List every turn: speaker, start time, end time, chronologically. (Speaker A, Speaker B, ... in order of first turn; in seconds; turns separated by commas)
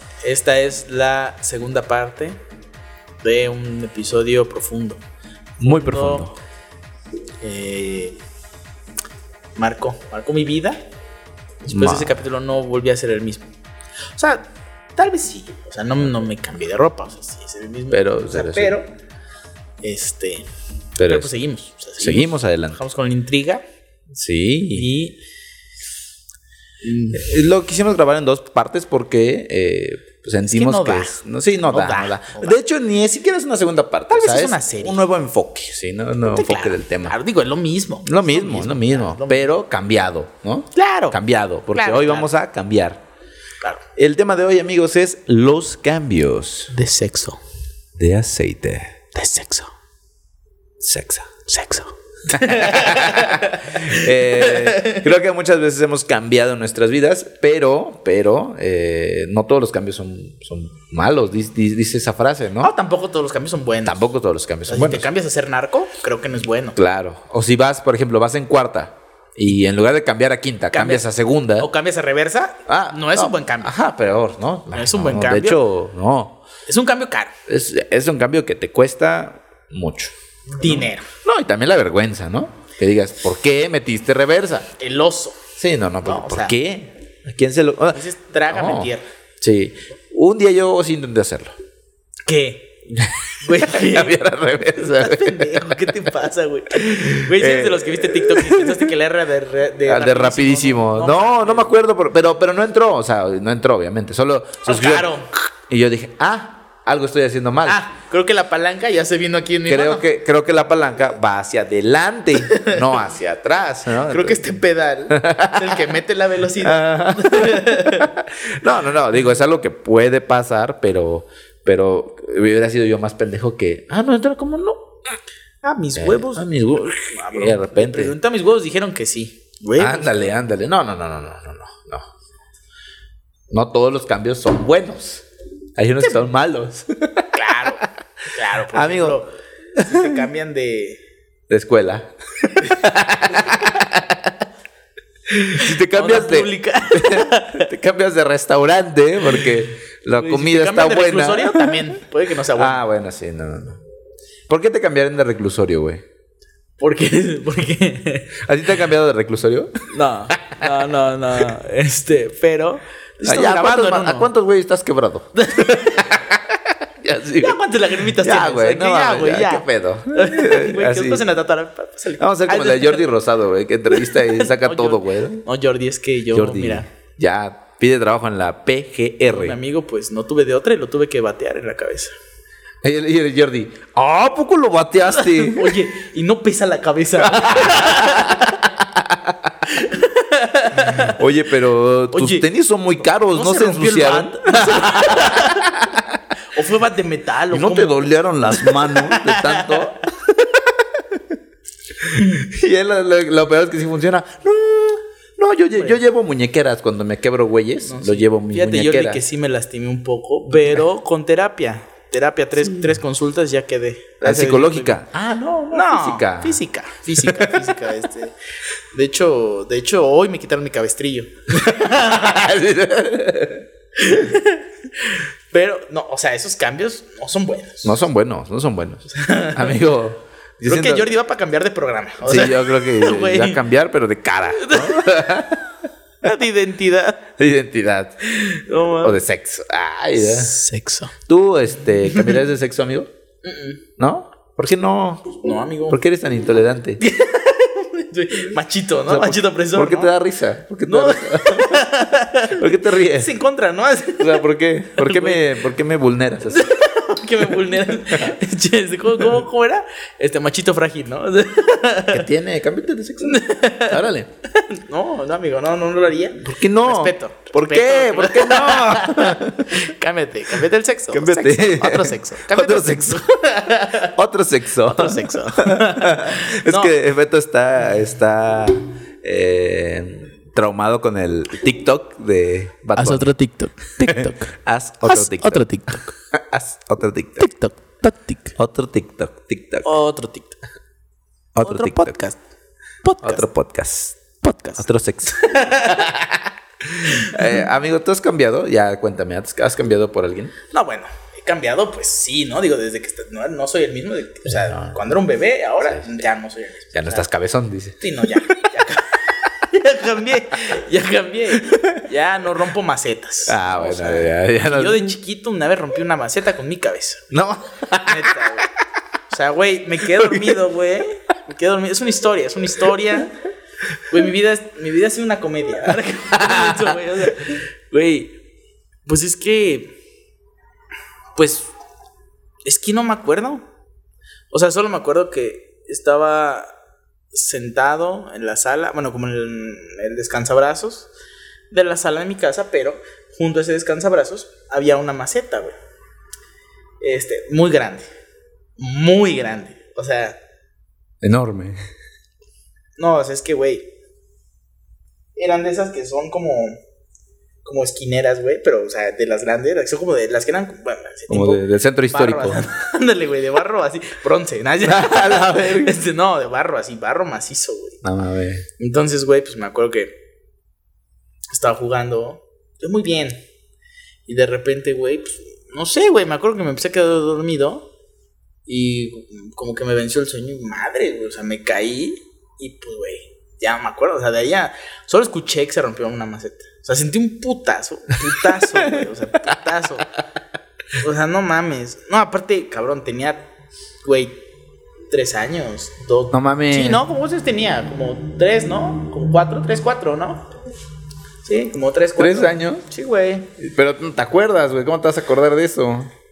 Speaker A: 0.2-2.4, Speaker A: 3.2-5.0, Speaker B: 5.6-6.3, Speaker A: 5.6-6.3, Speaker A: 7.4-8.2, Speaker A: 9.6-10.8, Speaker A: 11.6-13.5, Speaker B: 11.7-12.2, Speaker A: 14.1-18.9, Speaker B: 17.9-18.7, Speaker A: 19.8-20.5, Speaker B: 21.0-21.3, Speaker A: 21.0-23.6, Speaker B: 22.0-22.8, Speaker B: 24.1-24.9, Speaker A: 24.7-25.2, Speaker A: 26.8-27.2, Speaker B: 27.1-37.1, Speaker A: 30.4-32.6, Speaker A: 34.1-35.0, Speaker A: 36.2-39.5, Speaker B: 38.0-43.0, Speaker A: 40.7-41.2, Speaker A: 41.7-42.3, Speaker B: 44.0-46.7, Speaker A: 46.7-47.4, Speaker B: 48.0-49.0, Speaker A: 49.1-49.7, Speaker B: 50.8-51.3, Speaker A: 51.5-55.0, Speaker B: 52.3-62.7, Speaker A: 62.6-64.1, Speaker B: 63.8-65.1, Speaker A: 64.7-66.8, Speaker B: 66.8-71.7, Speaker A: 70.7-73.7, Speaker B: 72.7-76.4, Speaker A: 74.7-75.6, Speaker A: 76.7-77.3, Speaker B: 77.5-84.7, Speaker A: 80.5-81.1, Speaker A: 84.8-85.4, Speaker B: 85.6-91.6, Speaker A: 86.0-86.5, Speaker A: 87.9-89.0, Speaker A: 92.2-92.8, Speaker B: 92.9-96.0, Speaker A: 93.4-94.2, Speaker A: 94.8-101.7, Speaker B: 96.7-98.9, Speaker B: 99.8-105.1, Speaker A: 104.6-105.3, Speaker B: 105.7-107.8, Speaker A: 107.6-110.0, Speaker B: 109.7-114.5, Speaker A: 112.5-112.8, Speaker A: 114.1-118.1, Speaker B: 115.1-116.0, Speaker B: 116.5-125.1, Speaker A: 125.6-126.5, Speaker B: 126.0-128.1, Speaker A: 127.1-130.3, Speaker B: 129.8-132.1, Speaker B: 133.5-135.2, Speaker B: 135.8-137.9, Speaker A: 137.3-141.0, Speaker B: 138.7-139.2, Speaker B: 139.7-140.2, Speaker B: 141.5-144.3, Speaker A: 143.4-143.7, Speaker B: 145.3-151.8, Speaker A: 145.3-147.7, Speaker A: 150.1-152.8, Speaker B: 152.5-153.8, Speaker B: 154.5-156.0, Speaker A: 156.8-158.4, Speaker B: 158.4-160.7, Speaker A: 159.9-164.3, Speaker B: 163.2-171.2, Speaker A: 165.4-166.2, Speaker A: 167.4-173.0, Speaker B: 172.2-175.4, Speaker A: 173.9-176.9, Speaker B: 176.3-179.6, Speaker A: 179.2-182.1, Speaker B: 182.8-185.8, Speaker A: 185.1-188.7, Speaker B: 187.2-189.4, Speaker A: 189.7-191.2, Speaker B: 191.0-196.2, Speaker A: 192.1-192.5, Speaker A: 193.2-195.8, Speaker A: 196.5-200.0, Speaker B: 197.5-201.2, Speaker B: 202.0-209.2, Speaker A: 202.1-202.4, Speaker A: 207.8-215.0, Speaker B: 214.2-216.6, Speaker A: 215.7-218.3, Speaker B: 217.2-217.9, Speaker A: 218.9-222.5, Speaker B: 221.5-223.7, Speaker A: 223.9-228.0, Speaker B: 227.8-231.1, Speaker A: 229.1-229.8, Speaker A: 230.7-233.6, Speaker B: 232.2-235.7, Speaker A: 234.5-235.3, Speaker A: 236.2-237.2, Speaker B: 237.4-238.2, Speaker A: 238.3-239.2, Speaker B: 238.9-240.6, Speaker A: 240.2-241.1, Speaker B: 241.3-243.1, Speaker A: 242.1-242.4, Speaker A: 243.4-243.8, Speaker B: 244.0-245.4, Speaker A: 245.4-246.0, Speaker B: 245.9-247.0, Speaker A: 247.0-250.1, Speaker B: 249.1-251.9, Speaker A: 250.9-255.6, Speaker B: 252.5-253.3, Speaker B: 254.2-256.8, Speaker A: 256.5-262.3, Speaker B: 262.1-264.3, Speaker A: 263.2-274.1, Speaker B: 266.4-269.8, Speaker B: 271.1-273.3, Speaker B: 273.9-283.3, Speaker A: 274.8-276.9, Speaker A: 282.9-286.1, Speaker B: 284.0-287.5, Speaker A: 287.4-288.5, Speaker B: 288.6-289.9, Speaker A: 289.8-290.6, Speaker B: 291.5-292.2, Speaker A: 291.6-292.4, Speaker A: 293.0-293.4, Speaker B: 293.2-294.2, Speaker A: 294.4-296.2, Speaker B: 294.8-300.5, Speaker A: 297.1-297.5, Speaker A: 300.7-307.2, Speaker B: 304.6-305.0, Speaker B: 306.9-308.3, Speaker A: 308.0-317.3, Speaker B: 311.7-312.0, Speaker B: 313.5-315.1, Speaker B: 317.3-318.7, Speaker A: 318.0-318.7, Speaker A: 319.3-323.3, Speaker B: 320.1-320.6, Speaker A: 324.1-328.4, Speaker B: 326.3-327.2, Speaker A: 329.1-330.0, Speaker A: 331.4-331.7, Speaker A: 332.6-333.6, Speaker A: 334.5-336.7, Speaker A: 337.3-341.1, Speaker A: 341.7-345.7, Speaker A: 347.0-348.1, Speaker A: 348.8-350.4, Speaker B: 351.2-351.8, Speaker A: 353.0-353.9, Speaker A: 355.4-356.8, Speaker A: 357.6-368.0, Speaker B: 361.3-362.7, Speaker B: 364.8-366.0, Speaker B: 368.0-368.6, Speaker A: 368.8-370.1, Speaker A: 371.5-373.4, Speaker A: 374.2-377.9, Speaker A: 378.7-390.1, Speaker B: 388.6-388.9, Speaker A: 390.9-393.5, Speaker A: 394.0-394.4, Speaker A: 395.1-400.5, Speaker B: 396.3-397.0, Speaker A: 401.4-403.5, Speaker B: 402.2-402.8, Speaker B: 403.6-406.1